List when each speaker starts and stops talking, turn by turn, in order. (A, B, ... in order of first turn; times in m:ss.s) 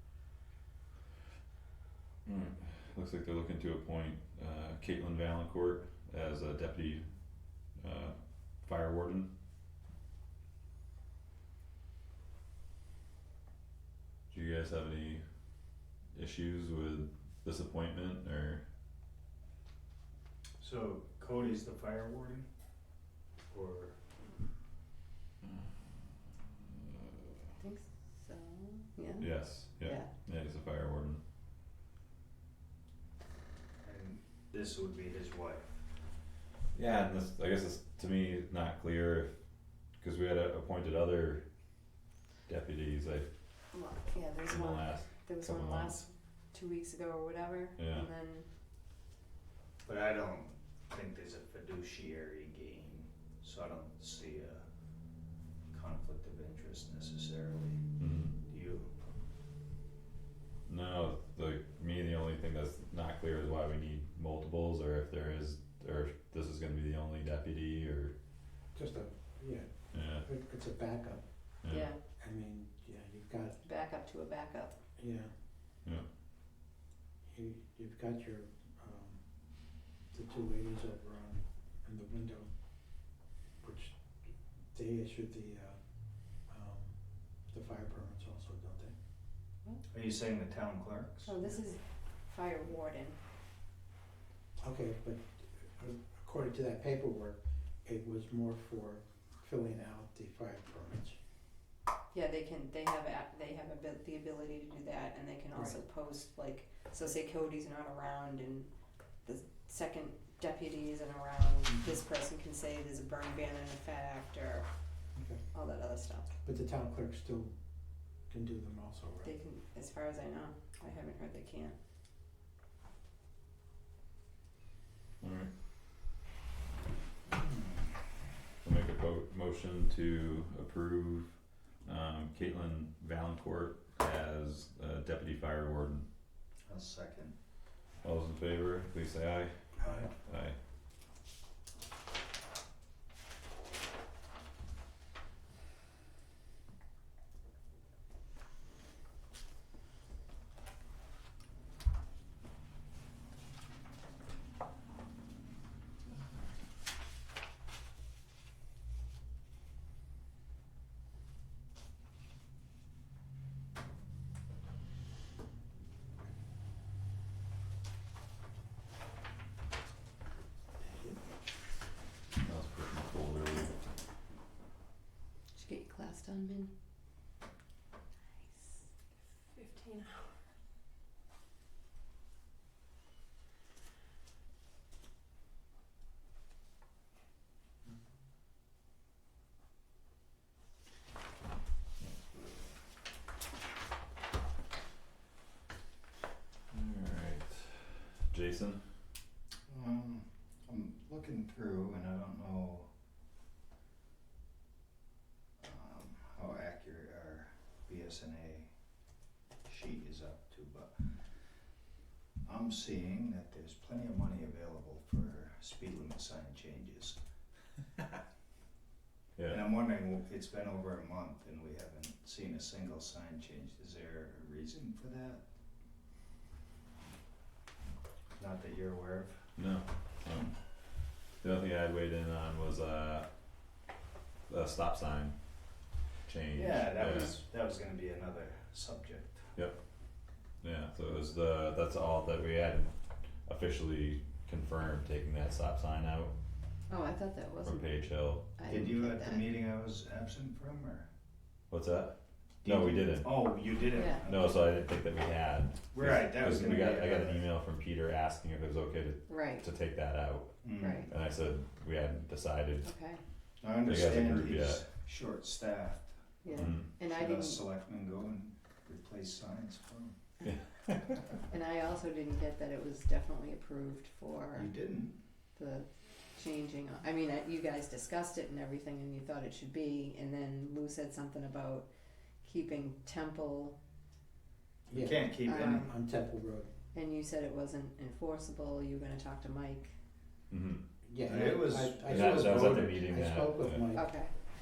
0:02.2-0:07.0 A
0:07.8-0:09.3 A
0:14.3-0:15.2 A
0:16.1-0:18.6 A
0:20.6-0:22.4 B
0:23.5-0:24.0 B
0:27.6-0:30.1 C
0:29.2-0:31.2 A
0:33.8-0:35.8 B
0:36.7-0:39.3 A
0:40.0-0:41.4 A
0:42.5-0:43.3 A
0:43.7-0:48.5 C
0:44.5-0:46.0 A
0:47.8-0:48.1 A
0:49.8-0:54.6 B
0:55.7-0:57.8 B
0:58.0-0:58.3 A
0:58.5-0:58.9 B
1:00.7-1:08.1 A
1:08.7-1:11.2 D
1:09.9-1:10.2 A
1:11.6-1:11.9 A
1:11.7-1:12.0 C
1:12.2-1:13.6 D
1:13.6-1:14.8 C
1:15.0-1:15.3 D
1:17.3-1:19.2 D
1:20.1-1:22.5 D
1:23.6-1:25.8 D
1:26.5-1:26.9 D
1:27.5-1:28.9 D
1:29.9-1:31.4 B
1:31.2-1:33.2 C
1:34.6-1:41.2 D
1:42.1-1:48.7 C
1:49.2-1:54.7 C
1:55.5-1:56.3 C
1:56.4-1:57.5 D
1:58.3-1:59.3 D
1:59.2-2:01.7 C
2:05.2-2:05.5 A
2:07.3-2:07.9 B
2:08.6-2:11.3 A
2:11.8-2:16.0 A
2:16.6-2:17.3 B
2:18.0-2:20.6 A
2:19.8-2:20.1 B
2:50.8-2:51.2 D
2:52.4-2:53.7 A
2:55.5-2:56.7 C
2:59.6-3:00.1 C
3:16.7-3:18.8 A
3:19.7-3:22.9 B
3:25.6-3:28.7 B
3:29.6-3:31.0 B
3:32.4-3:37.2 B
3:39.4-3:39.6 A
3:39.5-3:45.4 B
3:48.4-3:49.5 B
3:49.6-3:50.5 A
3:51.4-3:53.3 A
3:54.5-3:55.3 A
3:56.2-3:57.4 A
3:56.5-3:59.5 B
4:00.6-4:02.9 A
4:03.4-4:06.3 A
4:06.9-4:09.5 C
4:07.6-4:08.5 A
4:08.7-4:11.1 B
4:11.7-4:13.5 A
4:12.6-4:14.6 B
4:13.9-4:14.2 C
4:14.2-4:22.8 A
4:15.9-4:17.5 B
4:19.3-4:19.7 C
4:20.6-4:21.1 B
4:20.8-4:21.1 C
4:22.8-4:23.2 C
4:23.6-4:30.2 B
4:23.8-4:24.8 A
4:26.4-4:27.6 C
4:26.5-4:26.9 A
4:30.4-4:31.2 A
4:31.5-4:34.7 C
4:34.5-4:35.2 B
4:35.6-4:41.9 C
4:42.4-4:43.8 C
4:44.9-4:45.9 B
4:44.9-4:46.7 D
4:45.4-4:45.9 C
4:46.9-4:49.9 C
4:50.5-4:50.8 A
4:51.0-4:54.2 D
4:51.2-4:53.1 B
4:52.1-4:53.8 A
4:53.9-4:54.3 C